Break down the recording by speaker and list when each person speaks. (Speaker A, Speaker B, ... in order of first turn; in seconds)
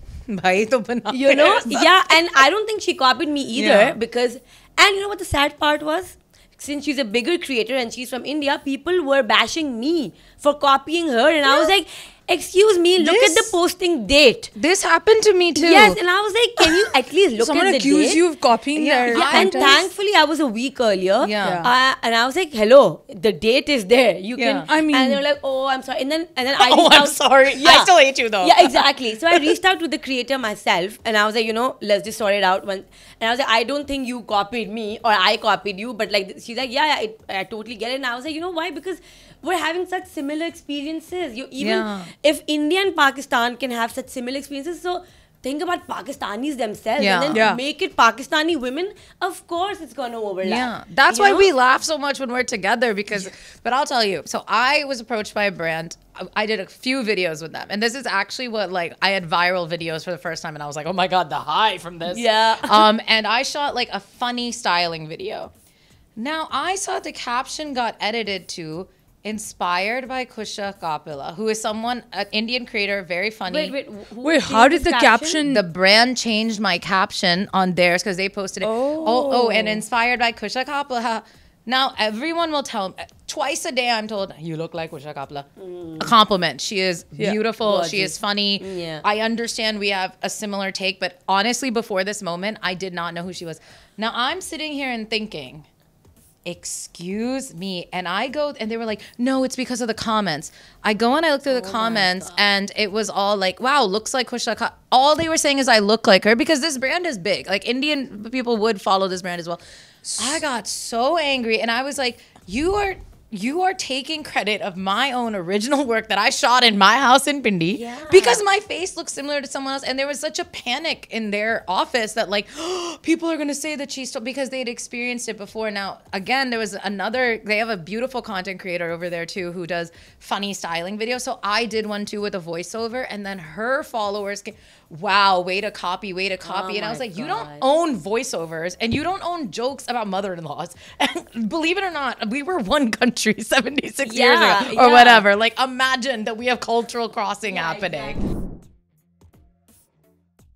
Speaker A: 0.3-2.2, 3.6-4.0, 13.0-13.5, 14.6-16.0, 18.8-19.8, 21.2-21.6, 24.4-24.7, 26.6-29.5, 41.6-42.1, 47.0-47.4, 50.4-65.5, 66.2-73.7, 75.5-85.5, 86.0-95.7, 96.5-109.6, 110.2-148.2
Speaker B: 1.1-14.5, 15.6-18.2, 19.1-51.5, 62.1-62.9, 73.5-75.4, 85.6-86.1, 87.6-89.0, 101.5-102.3, 117.7-118.4, 136.4-137.7, 144.1-145.2, 147.6-148.1
Speaker C: 17.4-19.9, 21.4-21.7, 24.7-25.2, 47.3-47.6, 74.2-75.7, 78.6-79.8, 110.0-110.4